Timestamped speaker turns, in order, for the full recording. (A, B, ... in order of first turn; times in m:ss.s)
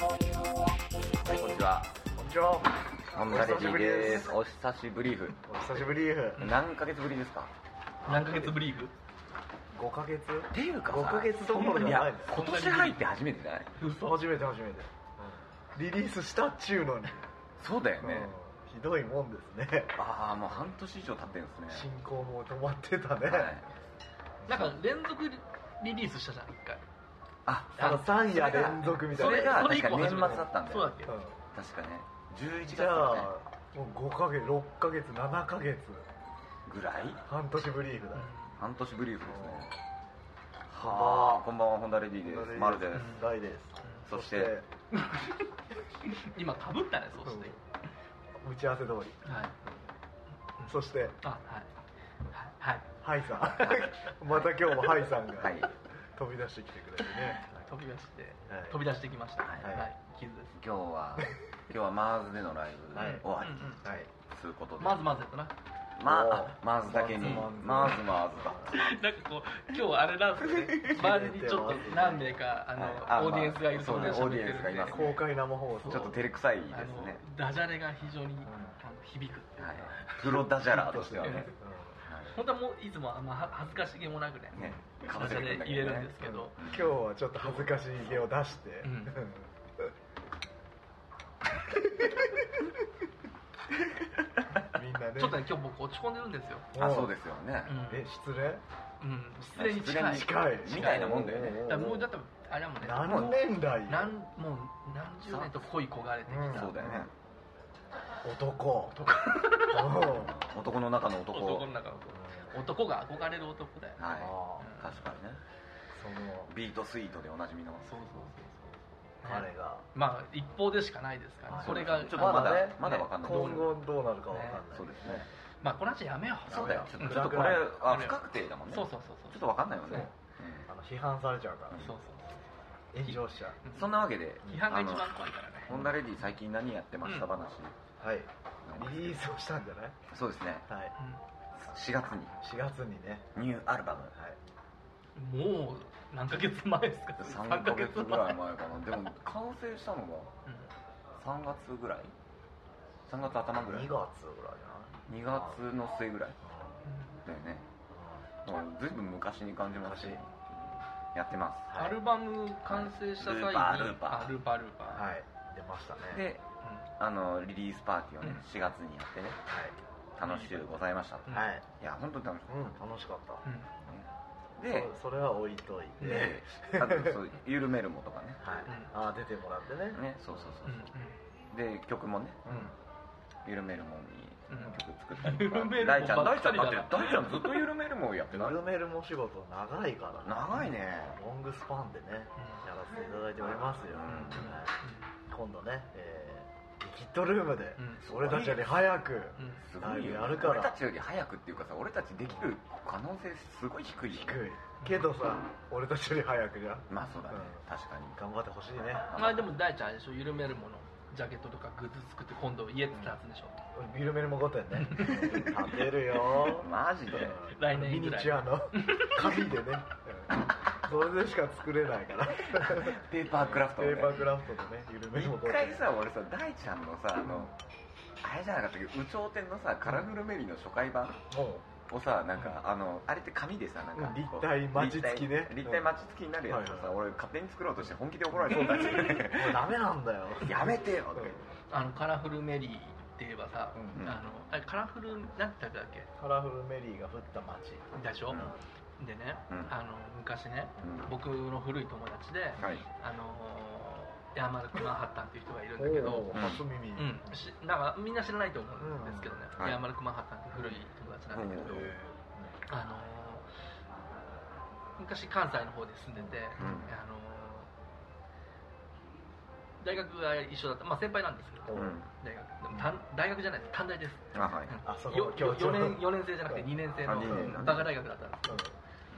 0:01.2-0:01.9 A
0:02.2-0:04.4 B
0:03.1-0:05.4 A
0:05.5-0:06.5 B
0:06.4-0:07.5 A
0:08.0-0:08.9 C
0:08.1-0:08.5 B
0:09.7-0:12.4 B
0:10.5-0:13.7 A
0:12.3-0:13.0 C
0:13.8-0:14.2 C
0:13.9-0:17.2 B
0:17.6-0:18.3 A
0:18.0-0:19.9 B
0:20.0-0:21.9 A
0:21.7-0:23.5 B
0:23.2-0:23.7 A
0:24.4-0:24.7 B
0:24.5-0:26.8 C
0:27.5-0:31.0 A
0:27.8-0:30.4 B
0:27.8-0:28.2 C
0:28.8-0:31.2 C
0:31.1-0:31.4 B
0:31.5-0:33.3 A
0:32.6-0:36.1 B
0:36.7-0:37.2 A
0:37.2-0:38.3 B
0:38.2-0:38.5 C
0:38.6-0:39.7 A
0:39.2-0:39.7 B
0:40.7-0:43.2 A
0:40.8-0:41.5 B
0:42.2-0:44.6 B
0:42.9-0:43.3 C
0:44.1-0:44.5 A
0:46.2-0:47.5 C
0:47.2-0:47.6 B
0:48.4-0:49.5 B
0:49.3-0:49.5 C
0:50.6-0:51.7 C
0:50.7-0:51.2 B
0:52.3-0:52.9 C
0:53.0-0:57.6 B
0:53.6-0:53.9 C
0:55.4-0:55.7 A
0:57.1-1:00.5 C
0:58.5-0:58.8 B
0:59.6-0:59.9 B
1:00.6-1:05.0 A
1:03.0-1:03.3 B
1:03.0-1:03.8 C
1:03.8-1:04.1 B
1:04.8-1:05.5 C
1:06.0-1:09.0 A
1:06.0-1:08.8 B
1:07.2-1:07.5 C
1:08.7-1:15.2 C
1:10.8-1:12.4 B
1:12.8-1:15.2 A
1:14.8-1:16.3 B
1:15.7-1:16.2 C
1:15.9-1:17.2 A
1:16.7-1:20.5 C
1:18.4-1:18.8 B
1:19.6-1:21.5 A
1:20.7-1:22.0 B
1:21.2-1:21.5 C
1:22.1-1:22.4 A
1:22.3-1:26.6 C
1:24.6-1:26.9 A
1:24.6-1:24.9 B
1:26.2-1:29.9 B
1:27.4-1:27.7 C
1:28.8-1:29.2 C
1:34.7-1:35.5 B
1:35.2-1:36.7 C
1:36.7-1:37.1 B
1:36.8-1:37.8 A
1:37.7-1:38.1 C
1:37.8-1:38.6 B
1:39.0-1:46.7 C
1:39.6-1:41.6 A
1:40.0-1:42.1 B
1:42.8-1:44.1 B
1:43.0-1:43.4 A
1:45.2-1:45.7 A
1:46.3-1:47.1 B
1:46.5-1:47.1 A
1:48.2-1:50.4 B
1:49.3-1:50.1 C
1:50.3-1:51.7 A
1:51.3-1:54.0 C
1:52.1-1:52.5 B
1:54.0-1:55.4 A
1:54.1-1:54.7 B
1:54.6-1:54.9 C
1:55.9-1:56.5 B
1:56.5-1:58.2 A
1:57.9-2:03.8 C
1:59.2-1:59.8 B
2:01.5-2:05.3 B
2:01.6-2:03.6 A
2:04.3-2:04.6 C
2:04.7-2:05.2 A
2:05.6-2:10.1 C
2:06.5-2:07.7 B
2:06.5-2:10.7 A
2:10.7-2:12.0 B
2:11.8-2:12.4 C
2:12.9-2:13.6 B
2:13.0-2:15.7 C
2:13.7-2:15.0 A
2:15.7-2:17.8 A
2:15.7-2:16.0 B
2:17.0-2:17.3 C
2:18.0-2:20.0 B
2:18.6-2:19.2 A
2:20.1-2:20.7 A
2:20.7-2:20.9 B
2:21.6-2:22.4 A
2:22.4-2:23.3 B
2:23.4-2:24.1 A
2:25.2-2:28.4 C
2:27.2-2:30.3 A
2:31.2-2:32.1 A
2:33.1-2:33.9 A
2:33.4-2:35.6 B
2:35.1-2:36.4 A
2:36.4-2:36.8 B
2:36.9-2:37.2 C
2:37.3-2:37.7 A
2:37.9-2:38.2 B
2:38.4-2:40.3 A
2:39.8-2:40.2 B
2:41.1-2:41.7 A
2:41.7-2:42.0 B
2:41.8-2:45.1 C
2:42.7-2:44.3 A
2:44.9-2:46.2 B
2:46.1-2:46.4 A
2:47.0-2:49.4 A
2:49.5-2:49.8 B
2:50.2-2:52.6 A
2:50.2-2:50.6 C
2:51.3-2:51.7 B
2:52.5-2:53.4 B
2:53.4-2:53.7 C
2:54.6-2:54.9 A
2:54.6-2:57.2 B
2:56.0-2:56.4 C
2:56.0-2:58.4 A
2:58.4-3:00.6 B
2:59.9-3:00.9 A
3:00.6-3:01.2 C
3:01.5-3:02.7 A
3:02.4-3:02.7 B
3:03.4-3:08.6 A
3:04.5-3:07.7 C
3:08.3-3:14.7 B
3:10.2-3:11.2 A
3:13.9-3:14.5 A
3:14.1-3:15.1 C
3:15.3-3:20.8 B
3:17.8-3:18.1 C
3:18.1-3:19.0 A
3:19.4-3:19.6 C
3:19.6-3:24.5 A
3:22.3-3:22.5 B
3:24.0-3:27.6 B
3:24.8-3:25.1 C
3:26.9-3:28.2 A
3:28.2-3:29.1 B
3:29.1-3:29.5 A
3:29.2-3:33.6 C
3:33.8-3:45.9 B
3:34.8-3:35.5 C
3:36.5-3:37.4 A
3:37.5-3:39.5 C
3:42.7-3:44.3 A
3:45.1-3:47.5 A
3:47.2-3:47.5 B
3:48.2-3:51.2 A
3:51.3-3:51.7 B
3:51.8-3:59.7 A
3:54.0-3:55.9 B
3:56.5-3:57.0 B
3:58.4-4:01.4 B
4:00.4-4:01.4 A
4:01.7-4:06.1 C
4:03.8-4:04.1 B
4:03.9-4:04.2 A
4:06.2-4:08.6 B
4:08.0-4:08.4 C
4:09.0-4:21.9 C
4:09.5-4:09.8 A
4:10.8-4:11.1 A
4:12.6-4:12.8 A
4:15.8-4:17.3 B
4:16.3-4:16.7 A
4:18.8-4:19.4 B
4:20.5-4:20.8 B
4:21.3-4:21.9 A
4:21.6-4:22.6 B
4:22.7-4:23.4 C
4:25.0-4:27.7 C
4:26.2-4:26.8 B
4:26.6-4:26.9 A
4:29.8-4:38.6 C
4:31.7-4:32.0 B
4:31.7-4:32.1 A
4:34.3-4:34.8 A
4:34.8-4:37.6 B
4:37.0-4:38.0 A
4:38.5-4:38.7 B